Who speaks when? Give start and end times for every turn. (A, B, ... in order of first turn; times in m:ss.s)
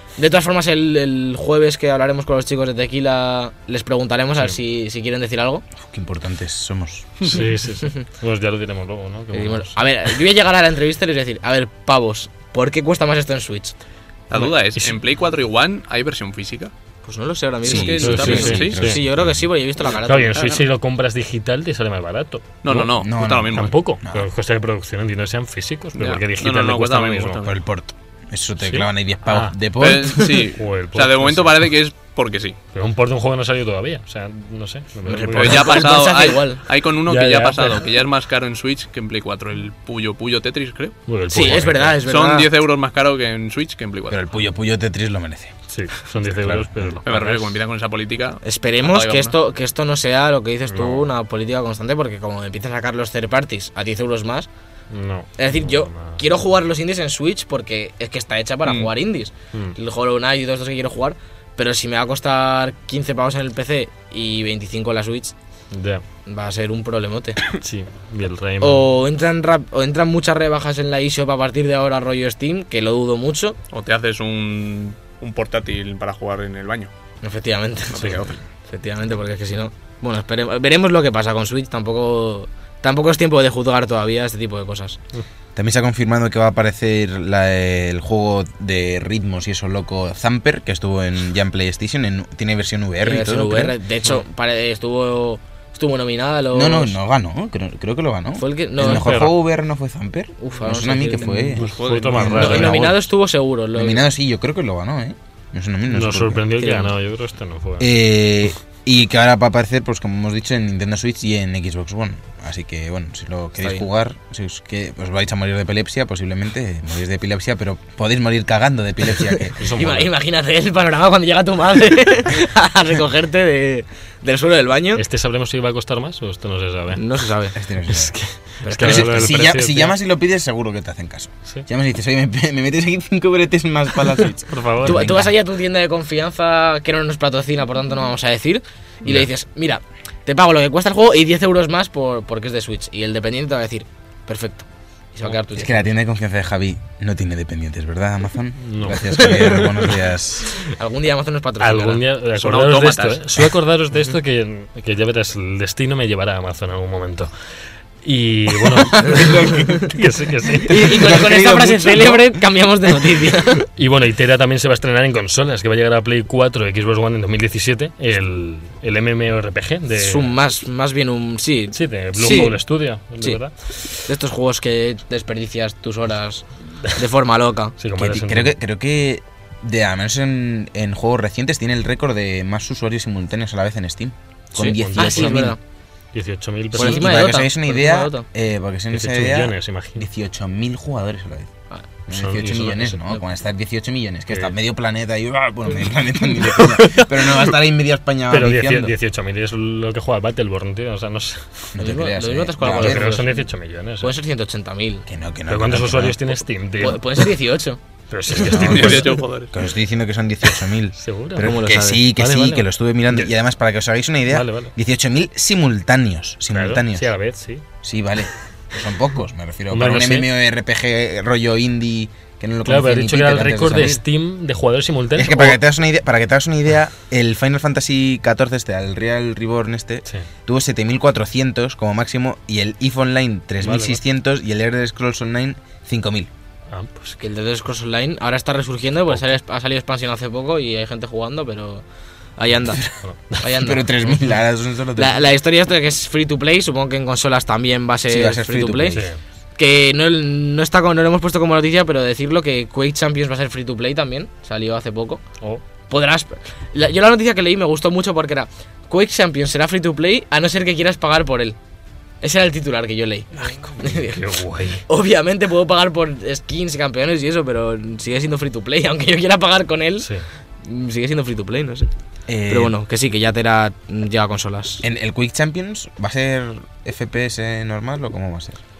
0:00.2-0:05.6 A
0:05.8-0:07.2 B
0:07.2-0:09.8 C
0:09.3-0:13.7 A
0:14.3-0:16.7 D
0:14.3-0:15.0 C
0:17.0-0:20.5 A
0:17.6-0:18.8 D
0:17.7-0:19.5 B
0:17.7-0:19.0 C
0:20.0-0:27.5 C
0:20.4-0:20.6 D
0:22.6-0:23.7 D
0:22.7-0:24.3 B
0:26.0-0:27.5 D
0:27.4-0:30.3 B
0:28.6-0:29.6 C
0:29.8-0:32.6 D
0:30.1-0:31.7 C
0:32.7-0:35.8 C
0:35.1-0:36.6 A
0:35.1-0:44.2 D
0:37.0-0:37.8 C
0:41.1-0:42.0 C
0:41.3-0:42.5 A
0:44.1-0:45.6 B
0:45.7-0:47.5 C
0:46.2-0:47.0 B
0:47.0-0:49.3 D
0:48.4-0:54.5 A
0:50.7-0:51.1 C
0:54.9-0:56.2 C
0:55.4-1:05.3 A
0:58.6-0:58.9 D
1:05.7-1:06.0 C
1:06.2-1:07.5 A
1:07.6-1:08.9 C
1:08.6-1:13.6 A
1:13.7-1:16.9 D
1:17.2-1:25.0 A
1:17.9-1:18.4 D
1:25.6-1:33.8 B
1:33.0-1:37.0 A
1:36.5-1:43.0 B
1:38.4-1:39.1 A
1:38.8-1:39.3 C
1:40.4-1:41.6 A
1:41.2-1:43.0 C
1:41.6-1:42.8 D
1:42.3-1:44.0 A
1:43.7-1:46.7 B
1:45.9-1:47.9 C
1:46.6-1:46.9 A
1:47.8-2:00.1 B
1:53.6-1:53.8 A
1:59.6-2:00.1 C
1:59.6-2:05.0 A
2:04.9-2:07.1 C
2:06.9-2:07.6 A
2:07.5-2:08.2 B
2:07.8-2:10.0 C
2:08.6-2:09.3 A
2:08.8-2:15.3 B
2:14.5-2:15.2 C
2:14.8-2:25.9 A
2:25.5-2:30.5 B
2:28.6-2:30.1 C
2:30.6-2:32.0 A
2:31.6-2:37.3 C
2:32.4-2:33.2 D
2:38.0-2:41.2 C
2:38.9-2:39.8 A
2:39.0-2:39.9 B
2:40.6-2:42.4 B
2:40.6-2:43.6 A
2:43.7-2:50.3 C
2:49.9-2:52.6 A
2:51.7-2:53.9 C
2:54.0-2:57.7 A
2:57.8-2:58.5 C
2:58.0-3:05.6 B
3:04.6-3:05.6 A
3:04.6-3:05.5 C
3:06.1-3:07.2 C
3:06.7-3:11.5 B
3:06.7-3:08.2 A
3:08.9-3:10.1 C
3:12.1-3:18.9 B
3:12.1-3:13.0 C
3:16.4-3:17.5 C
3:18.3-3:21.7 C
3:21.7-3:23.1 B
3:21.8-3:23.5 A
3:22.6-3:24.1 C
3:24.0-3:25.0 A
3:25.0-3:26.2 B
3:25.5-3:27.2 C
3:26.8-3:27.8 A
3:28.1-3:29.2 C
3:28.3-3:28.9 A
3:28.5-3:37.1 B
3:28.5-3:29.5 D
3:31.0-3:32.7 C
3:31.4-3:32.0 A
3:34.3-3:34.7 C
3:36.5-3:37.6 C
3:37.8-3:44.0 B
3:39.7-3:40.3 C
3:42.6-3:45.6 C
3:45.2-3:56.3 B
3:53.6-3:54.0 C
3:56.7-3:57.2 C
3:57.2-4:01.8 A
4:02.4-4:02.8 A
4:03.0-4:03.4 C
4:03.4-4:03.9 A
4:03.5-4:05.2 B
4:05.0-4:09.0 A
4:08.1-4:09.0 B
4:08.9-4:09.2 C
4:09.6-4:15.2 A
4:15.9-4:21.6 A
4:22.2-4:24.3 A
4:23.4-4:23.8 B
4:24.1-4:24.8 C
4:24.9-4:30.1 A
4:30.6-4:31.9 A
4:32.3-4:32.8 B
4:32.5-4:34.8 A
4:34.8-4:38.6 B